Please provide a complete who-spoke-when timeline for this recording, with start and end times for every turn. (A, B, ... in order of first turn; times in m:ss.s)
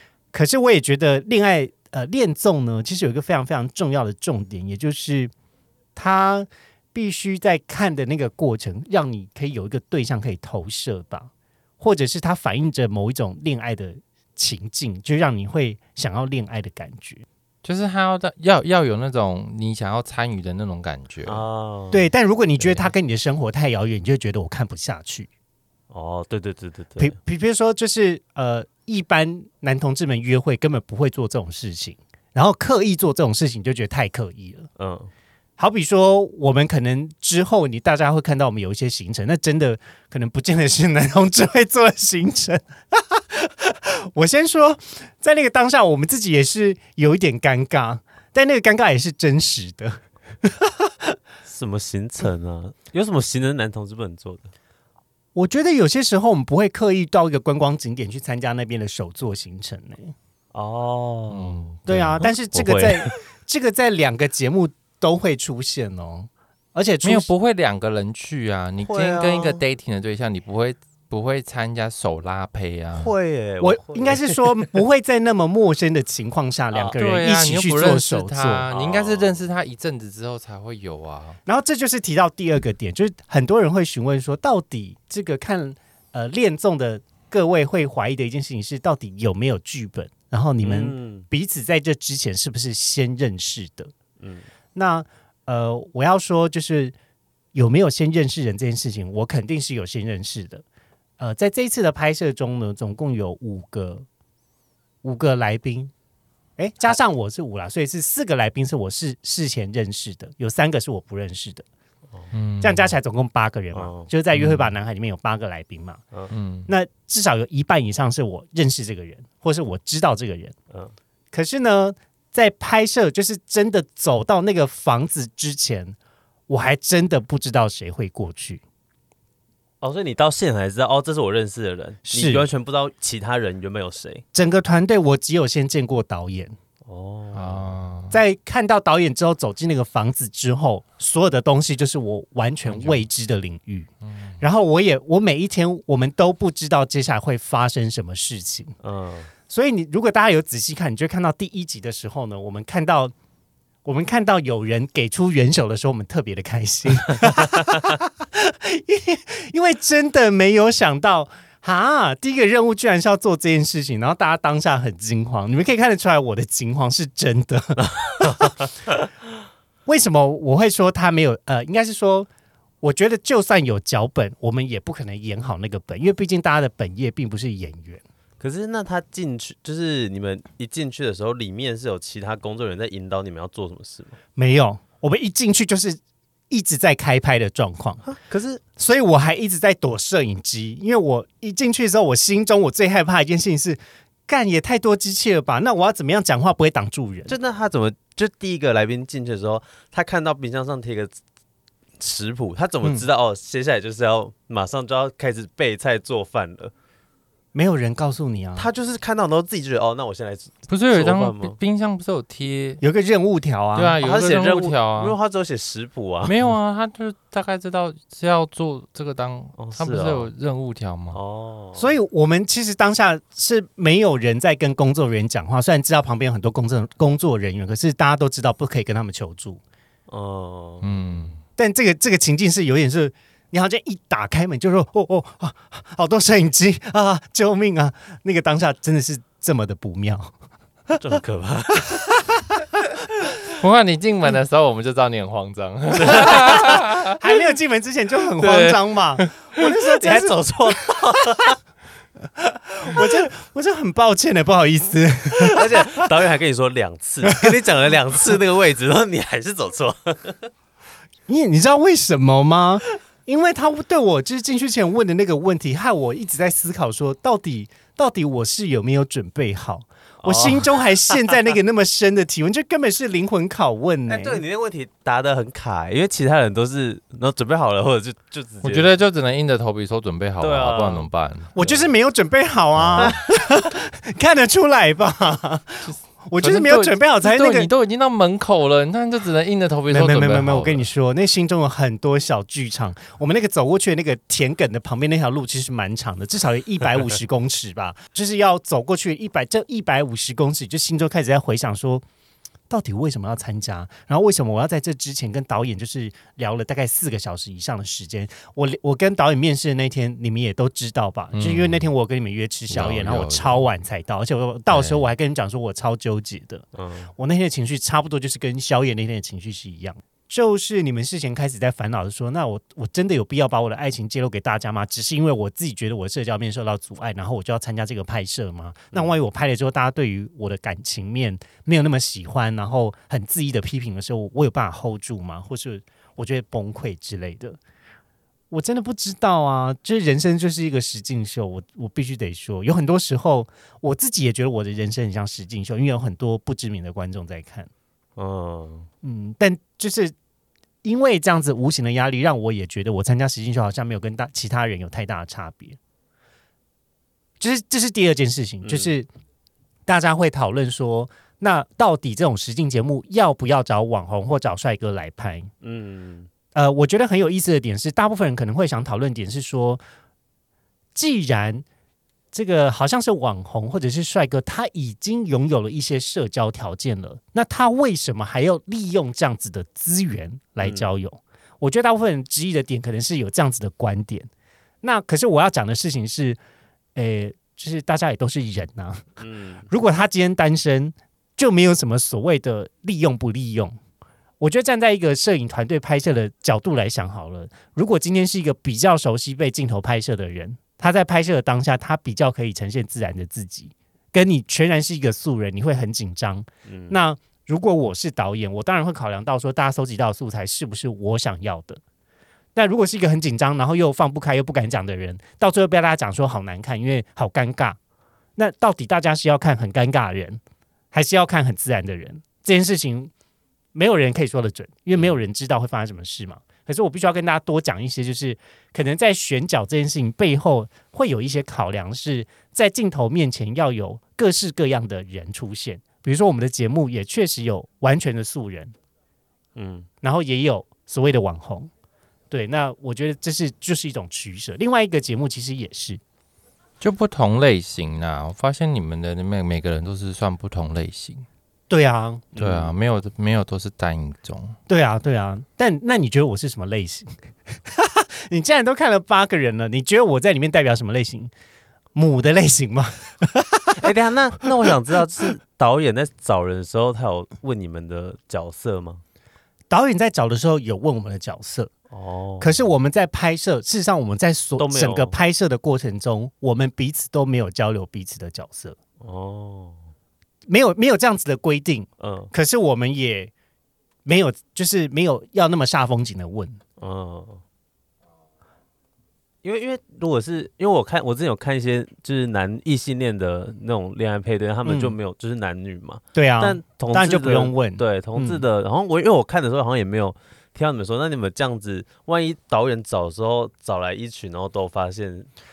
0:00.3-0:05.3 A
0:06.0-0:17.2 A
0:17.6-0:21.4 B
0:21.3-0:22.1 C
0:21.9-0:25.3 A
0:22.6-0:22.9 C
0:25.9-0:27.2 C
0:27.0-0:34.7 A
0:34.8-0:35.1 C
0:35.6-0:51.2 A
0:51.4-0:54.5 C
0:55.4-1:00.1 A
1:00.5-1:01.7 C
1:01.3-1:02.3 B
1:01.9-1:07.3 A
1:02.2-1:03.2 C
1:07.0-1:13.1 B
1:08.8-1:09.6 C
1:12.9-1:14.7 C
1:13.6-1:18.7 A
1:17.0-1:21.4 B
1:18.7-1:19.4 C
1:21.5-1:33.9 A
1:30.6-1:31.3 C
1:34.2-1:34.5 C
1:34.8-1:36.9 A
1:37.5-1:40.6 A
1:41.2-1:44.1 A
1:45.0-1:45.9 A
1:46.6-1:51.7 A
1:52.3-1:52.9 B
1:52.6-1:56.0 A
1:53.7-1:54.1 C
1:54.4-1:54.7 B
1:56.3-1:56.7 B
1:56.7-2:00.6 A
2:01.3-2:06.0 A
2:06.5-2:08.6 A
2:09.8-2:14.2 C
2:12.1-2:12.5 A
2:14.3-2:16.5 A
2:16.9-2:17.7 C
2:17.3-2:18.2 B
2:18.1-2:23.9 A
2:22.7-2:23.0 B
2:24.4-2:28.8 A
2:28.8-2:29.3 C
2:29.5-2:33.1 A
2:33.8-2:48.5 A
2:48.2-2:48.5 C
2:49.9-2:52.3 A
2:52.8-2:58.0 A
2:58.4-3:04.2 C
3:04.4-3:08.0 A
3:08.0-3:08.6 C
3:08.8-3:17.4 A
3:17.3-3:21.1 C
3:22.0-3:26.7 C
3:27.5-3:28.7 A
3:28.6-3:31.6 C
3:30.7-3:32.8 B
3:32.8-3:34.0 A
3:33.8-3:35.2 B
3:34.0-3:36.5 C
3:36.3-3:41.2 B
3:39.6-3:40.3 C
3:41.1-3:41.9 C
3:41.8-3:49.6 A
3:50.1-3:50.9 C
3:50.8-3:51.4 B
3:51.6-4:00.3 A
4:01.0-4:02.0 C
4:01.9-4:02.6 A
4:03.6-4:07.2 B
4:06.0-4:06.4 C
4:06.2-4:10.9 A
4:08.4-4:08.8 B
4:09.6-4:11.6 C
4:12.4-4:16.0 A
4:15.5-4:20.5 C
4:21.3-4:34.4 A
4:30.2-4:31.2 C
4:34.1-4:38.9 C
4:38.6-4:41.8 B
4:40.4-4:41.1 C
4:41.6-4:47.7 A
4:42.8-4:43.2 B
4:45.8-4:50.9 B
4:49.9-5:02.0 A
5:02.7-5:16.6 A
5:11.3-5:11.8 B
5:12.7-5:13.7 B
5:14.7-5:15.0 B
5:16.8-5:17.1 C
5:17.2-5:37.6 A
5:38.5-5:47.7 A
5:48.2-5:48.9 C
5:49.0-5:50.1 A
5:50.8-5:55.8 A
5:57.4-5:59.1 A
5:58.6-5:58.9 C
5:59.9-6:05.5 A
6:05.6-6:06.3 C
6:06.5-6:09.8 A
6:11.0-6:11.6 A
6:12.3-6:24.3 A
6:20.6-6:20.9 C
6:24.8-6:26.4 A
6:27.0-6:29.1 A
6:29.2-6:29.7 C
6:29.7-6:33.8 A
6:34.4-6:51.8 A
6:46.7-6:47.0 C
6:52.6-6:57.8 A
6:58.4-7:00.4 A
7:00.9-7:03.1 A
7:03.8-7:18.7 A
7:19.6-7:19.9 C
7:20.0-7:21.7 A
7:22.3-7:26.0 A
7:26.8-7:31.3 B
7:31.7-7:32.3 A
7:32.4-7:32.7 C
7:32.4-7:34.6 B
7:34.7-7:41.3 A
7:42.0-7:43.8 A
7:43.8-7:49.0 C
7:49.7-7:51.7 A
7:51.9-7:52.6 C
7:52.4-7:58.8 A
7:54.6-7:55.2 C
7:59.0-7:59.8 C
8:00.5-8:03.3 A
8:02.0-8:02.3 C
8:04.0-8:06.6 A
8:06.8-8:07.4 C
8:09.4-8:25.3 C
8:14.6-8:14.9 A
8:16.1-8:18.4 A